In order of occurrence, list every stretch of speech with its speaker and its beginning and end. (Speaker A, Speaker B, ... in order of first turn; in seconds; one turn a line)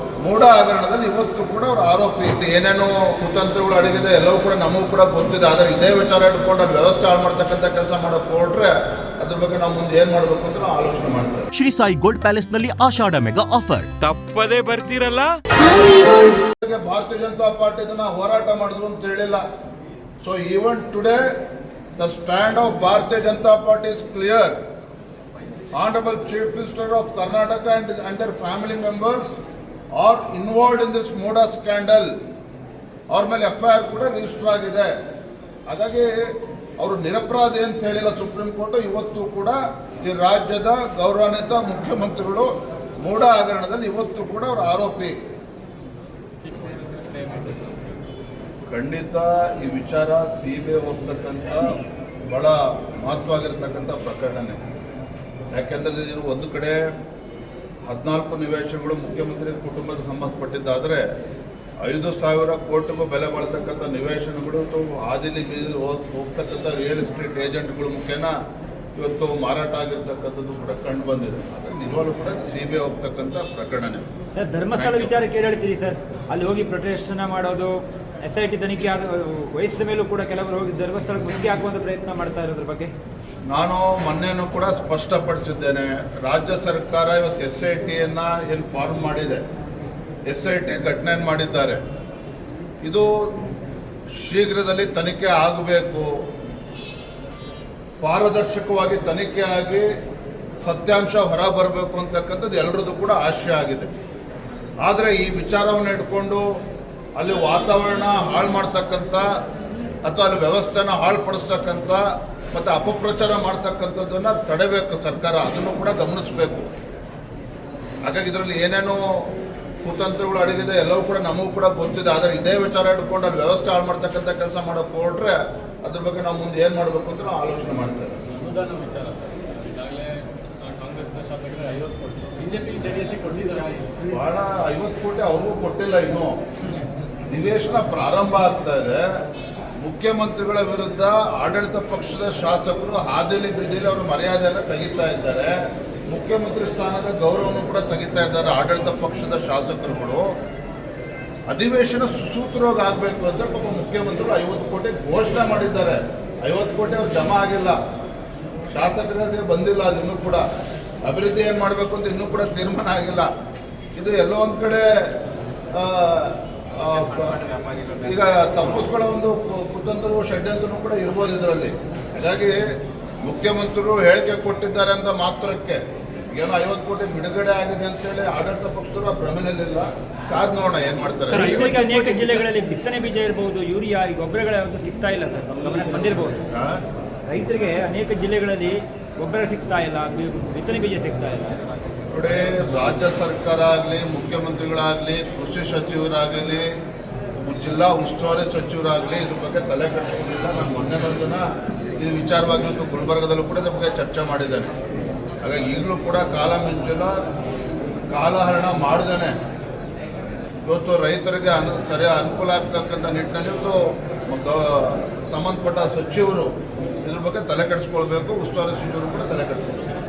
Speaker A: 0.2-11.5
Speaker B: 11.5-12.9
Speaker C: 11.6-13.9
Speaker B: 13.8-16.4
Speaker A: 16.6-19.4
Speaker A: 20.2-21.2
Speaker A: 22.0-24.6
Speaker A: 25.8-29.3
Speaker A: 30.0-32.1
Speaker A: 33.1-34.9
Speaker A: 35.7-42.5
Speaker A: 43.0-45.1
Speaker B: 46.7-47.6
Speaker A: 48.7-51.8
Speaker A: 52.3-54.6
Speaker A: 55.5-56.8
Speaker A: 57.9-61.0
Speaker A: 61.8-68.3
Speaker A: 69.0-74.1
Speaker D: 74.4-82.9
Speaker A: 74.8-75.1
Speaker A: 83.5-89.4
Speaker A: 90.3-91.8
Speaker A: 92.8-93.3
Speaker A: 94.2-96.1
Speaker A: 98.0-99.9
Speaker A: 100.6-103.9
Speaker A: 104.8-106.4
Speaker A: 107.2-109.3
Speaker A: 110.0-112.0
Speaker A: 112.5-116.7
Speaker A: 118.0-119.0
Speaker A: 119.8-128.2
Speaker B: 128.3-131.0
Speaker B: 131.9-133.9
Speaker A: 134.1-136.4
Speaker A: 137.3-139.1
Speaker A: 139.8-145.5
Speaker A: 146.1-150.2
Speaker A: 151.5-157.8
Speaker A: 158.7-160.4
Speaker A: 161.1-163.3
Speaker A: 164.0-165.1
Speaker A: 165.7-167.4
Speaker D: 167.4-168.0
Speaker A: 168.0-172.7
Speaker A: 173.2-175.8
Speaker A: 176.3-181.5
Speaker B: 181.3-182.5
Speaker D: 181.3-186.4
Speaker A: 186.5-186.8
Speaker D: 187.3-191.6
Speaker A: 192.1-196.7
Speaker A: 197.4-201.4
Speaker A: 202.0-204.7
Speaker A: 205.4-207.2
Speaker A: 208.1-209.4
Speaker A: 210.7-216.5
Speaker A: 217.1-219.9